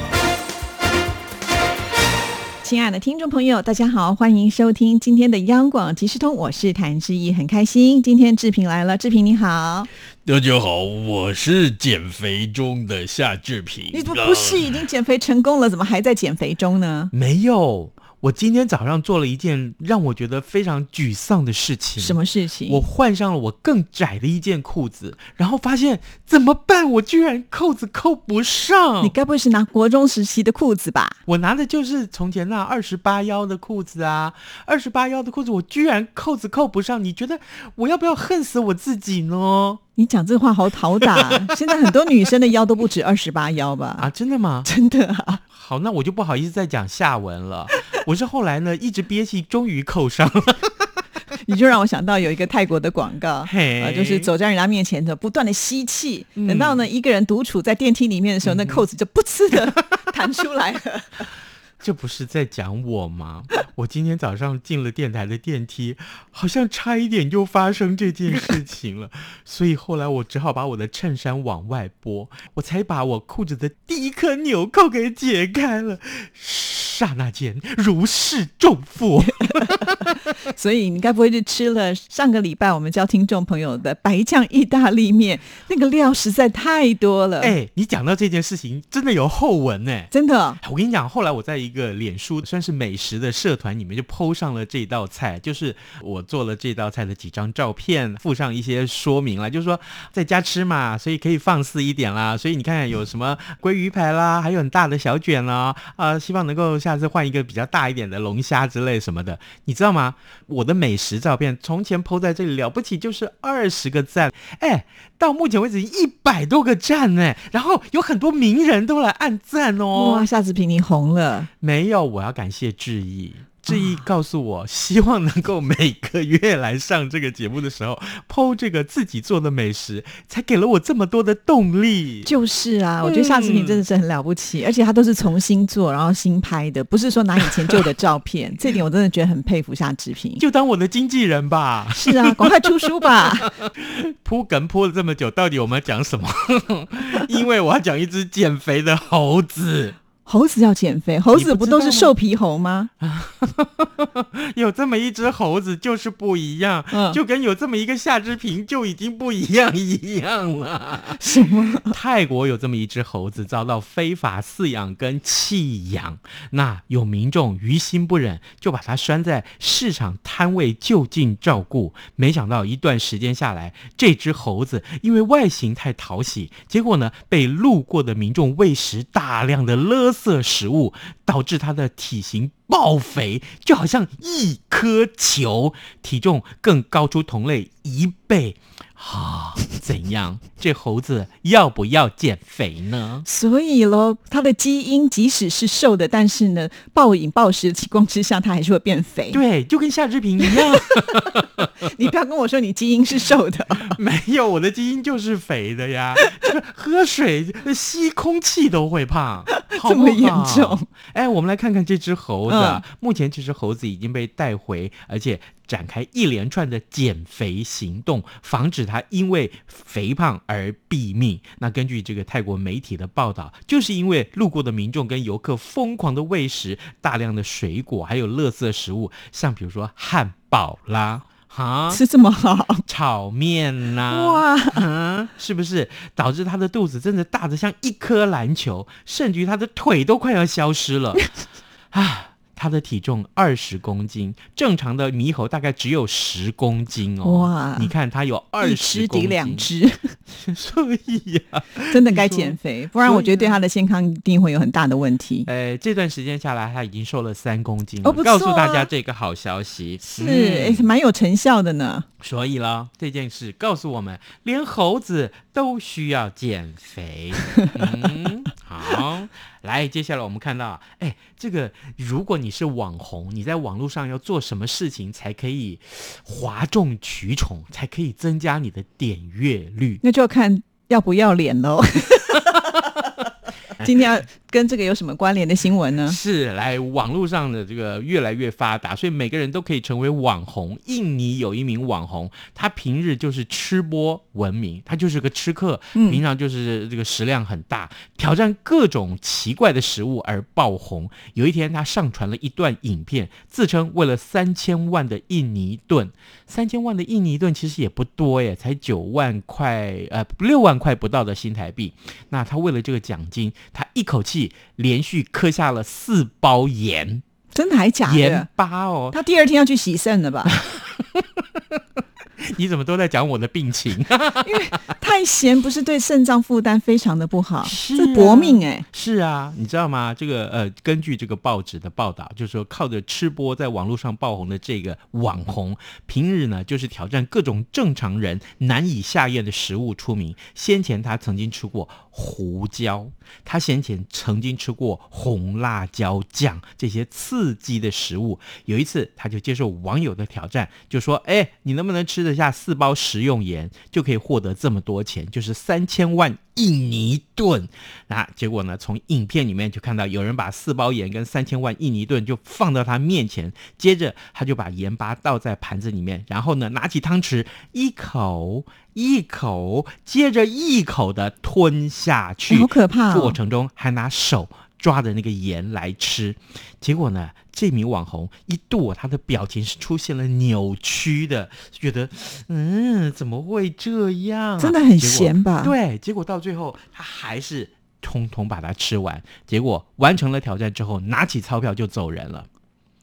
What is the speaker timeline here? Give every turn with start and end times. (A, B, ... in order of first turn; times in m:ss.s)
0:02.6-0:09.9 A
0:10.2-0:14.9 B
0:13.9-0:17.1 A
0:17.1-0:29.2 B
0:22.0-0:22.8 A
0:29.0-0:31.2 A
0:31.3-0:39.8 B
0:40.0-0:44.1 A
0:44.0-0:44.7 B
0:44.6-0:45.4 A
0:45.5-0:51.0 B
0:51.4-1:01.3 A
0:53.4-0:54.3 B
0:56.4-0:56.8 B
0:58.4-0:58.9 B
1:01.8-1:20.2 B
1:20.3-1:27.6 A
1:27.4-2:00.3 B
1:30.1-1:30.6 A
1:59.9-2:01.5 A
2:01.6-2:12.3 B
2:12.2-2:20.4 A
2:13.0-2:13.8 B
2:17.5-2:17.8 B
2:20.4-2:30.0 B
2:21.9-2:23.5 A
2:30.2-2:32.9 A
2:31.3-2:32.2 B
2:33.0-3:13.2 B
2:36.9-2:37.2 A
2:41.2-2:42.0 A
3:13.2-3:19.4 A
3:19.3-3:21.7 B
3:20.4-3:21.0 A
3:21.8-3:24.0 A
3:23.8-3:52.0 B
3:29.5-3:30.9 A
3:32.5-3:32.8 A
3:51.9-3:52.8 A
3:52.9-4:01.2 B
3:54.1-3:54.8 A
4:01.9-4:09.7 B
4:07.2-4:07.9 A
4:08.6-4:10.2 A
4:10.3-4:13.6 B
4:11.9-4:15.5 A
4:15.5-4:20.9 B
4:18.0-4:18.9 A
4:20.0-4:22.1 A
4:22.2-4:40.0 B
4:40.0-4:42.8 A
4:43.8-4:46.2 A
4:46.0-5:17.2 B
4:56.0-4:56.2 A
5:17.5-5:18.5 A
5:18.0-5:19.2 B
5:19.1-5:20.6 A
5:20.4-5:21.8 B
5:22.4-5:24.9 B
5:24.4-5:28.9 A
5:27.6-6:32.5 B
6:12.5-6:13.4 A
6:24.6-6:25.8 A